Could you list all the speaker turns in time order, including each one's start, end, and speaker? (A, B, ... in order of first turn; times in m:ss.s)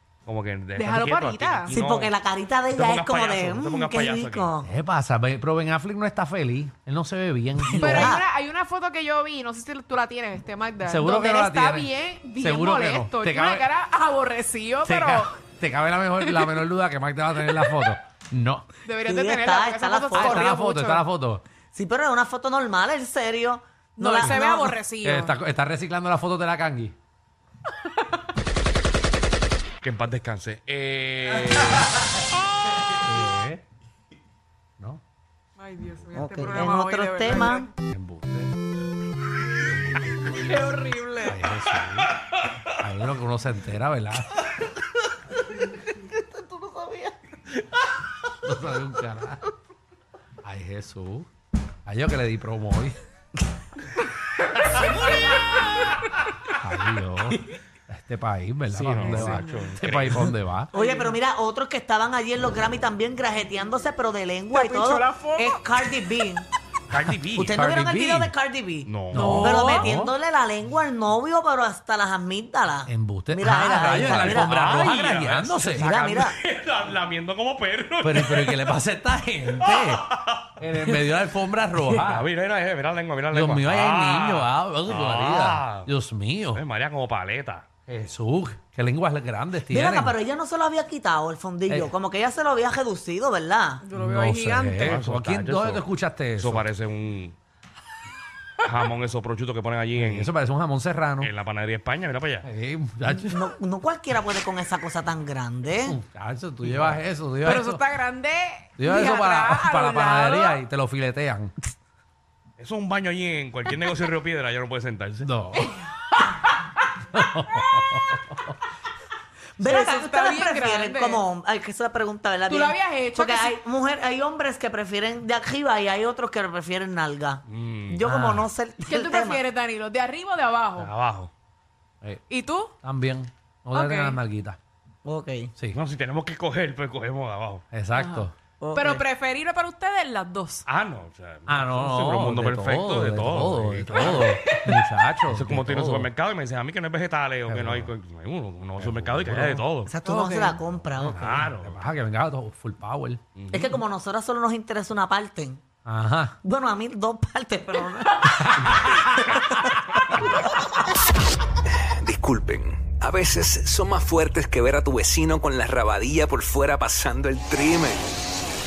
0:00.3-0:02.1 A
0:00.8-0:01.8 B
0:01.7-0:04.7 C
0:02.8-0:04.5 A
0:04.6-0:08.2 D
0:07.7-0:08.3 C
0:07.8-0:15.4 B
0:10.9-0:13.7 D
0:14.8-0:18.7 D
0:16.2-0:16.6 B
0:18.8-0:21.0 B
0:19.1-0:20.5 C
0:20.1-0:21.4 D
0:21.7-0:24.8 C
0:24.0-0:25.4 B
0:25.0-0:27.0 D
0:29.8-0:32.0 A
0:32.9-0:33.6 D
0:35.6-0:37.7 B
0:36.2-0:37.7 C
0:37.9-0:38.5 D
0:40.3-0:41.4 B
0:41.2-0:42.2 D
0:42.7-0:44.4 D
0:46.0-0:47.1 C
0:48.4-0:49.4 D
0:50.4-0:51.3 D
0:51.9-0:53.0 D
0:54.8-0:55.9 B
0:56.6-1:00.7 D
0:58.7-1:00.4 A
0:59.0-0:59.8 B
1:00.7-1:01.2 B
1:00.7-1:06.4 C
1:04.5-1:06.0 B
1:06.9-1:07.6 A
1:07.0-1:08.3 D
1:07.4-1:14.6 C
1:08.8-1:09.4 A
1:09.1-1:10.1 D
1:09.1-1:09.9 B
1:12.9-1:16.0 D
1:14.0-1:18.7 A
1:15.7-1:16.4 C
1:18.0-1:20.0 D
1:19.6-1:20.4 A
1:20.6-1:22.3 D
1:22.0-1:25.9 A
1:23.3-1:26.6 D
1:26.5-1:27.7 A
1:27.9-1:30.2 D
1:29.7-1:33.8 C
1:31.7-1:31.9 D
1:33.8-1:35.0 B
1:33.9-1:36.6 D
1:34.8-1:37.4 A
1:38.6-1:40.3 A
1:40.0-1:41.3 D
1:41.2-1:42.5 A
1:42.4-1:43.5 D
1:43.1-1:46.0 C
1:45.8-1:47.8 D
1:47.4-1:50.6 B
1:48.8-1:51.5 D
1:52.6-1:55.3 A
1:55.2-1:55.7 D
1:55.6-1:56.7 B
1:57.1-1:58.5 D
1:59.6-2:09.4 C
1:59.6-2:01.2 B
2:02.5-2:03.6 B
2:07.5-2:08.0 A
2:08.0-2:08.5 D
2:08.8-2:10.9 B
2:10.8-2:11.3 A
2:12.3-2:12.7 B
2:12.8-2:14.6 D
2:13.7-2:14.2 B
2:15.0-2:15.5 C
2:15.7-2:17.6 A
2:17.7-2:18.3 D
2:18.0-2:20.6 B
2:18.6-2:19.0 C
2:20.7-2:24.4 A
2:21.5-2:26.1 D
2:24.0-2:24.8 B
2:25.3-2:29.9 A
2:27.5-2:27.9 D
2:28.8-2:33.2 D
2:29.9-2:31.4 C
2:31.2-2:31.8 A
2:33.4-2:33.8 A
2:33.5-2:35.6 C
2:35.8-2:36.4 D
2:36.4-2:39.7 C
2:38.3-2:39.4 D
2:42.0-2:48.0 E